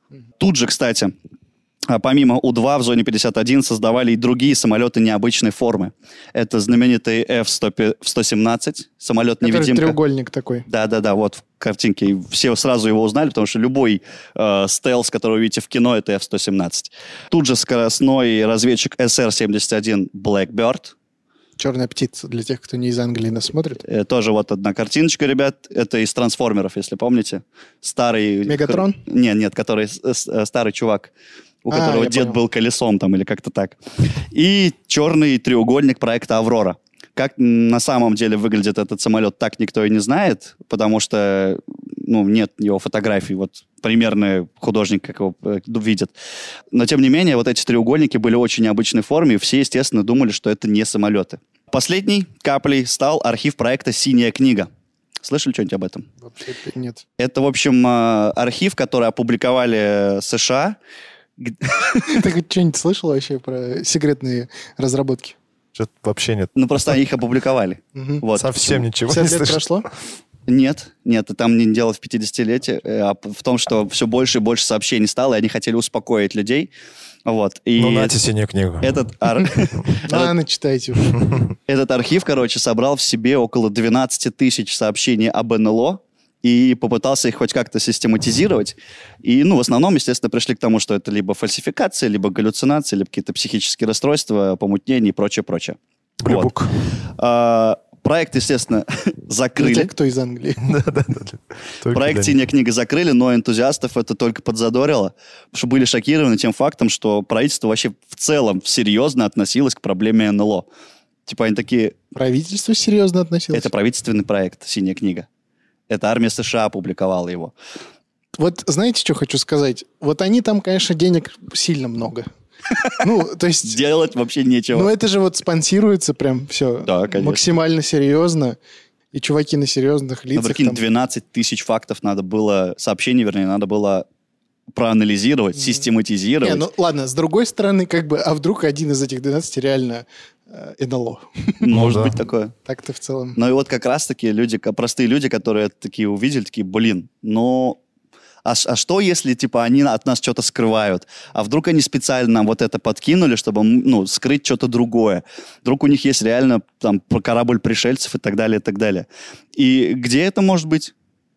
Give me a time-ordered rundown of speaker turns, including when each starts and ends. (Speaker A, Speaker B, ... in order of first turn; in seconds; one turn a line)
Speaker A: 0.4-1.1
Speaker A: 1.9-9.9
Speaker B: 9.4-10.7
Speaker A: 10.7-20.9
Speaker B: 21.6-23.8
Speaker A: 23.8-31.1
Speaker B: 28.5-29.0
Speaker A: 31.6-33.8
Speaker B: 31.7-32.4
Speaker A: 34.3-46.1
Speaker A: 46.7-54.7
Speaker A: 55.2-56.1
Speaker B: 56.2-57.0
Speaker A: 57.2-60.8
Speaker A: 61.4-62.2
Speaker B: 62.0-65.3
Speaker C: 65.7-66.5
Speaker A: 66.5-68.8
Speaker B: 67.9-68.2
Speaker C: 68.3-69.7
Speaker B: 69.1-69.9
Speaker A: 70.5-76.7
Speaker A: 77.2-78.2
Speaker C: 77.8-78.9
Speaker A: 78.8-80.3
Speaker B: 80.0-81.2
Speaker A: 81.7-96.5
Speaker C: 96.2-96.7
Speaker A: 97.2-99.9
Speaker B: 99.6-100.7
Speaker C: 100.6-102.4
Speaker A: 101.9-110.7
Speaker A: 111.2-112.0
Speaker B: 112.1-113.7
Speaker A: 113.5-115.2
Speaker A: 115.9-117.5
Speaker B: 118.4-122.3
Speaker A: 122.7-123.0
Speaker B: 123.0-123.8
Speaker A: 123.7-124.9
Speaker B: 124.7-128.6
Speaker A: 126.8-127.4
Speaker B: 129.1-130.8
Speaker A: 130.3-134.0
Speaker A: 134.7-136.7
Speaker B: 136.4-141.6
Speaker A: 141.6-142.5
Speaker C: 141.7-142.2
Speaker B: 142.7-143.4
Speaker A: 143.3-147.8
Speaker A: 148.4-160.9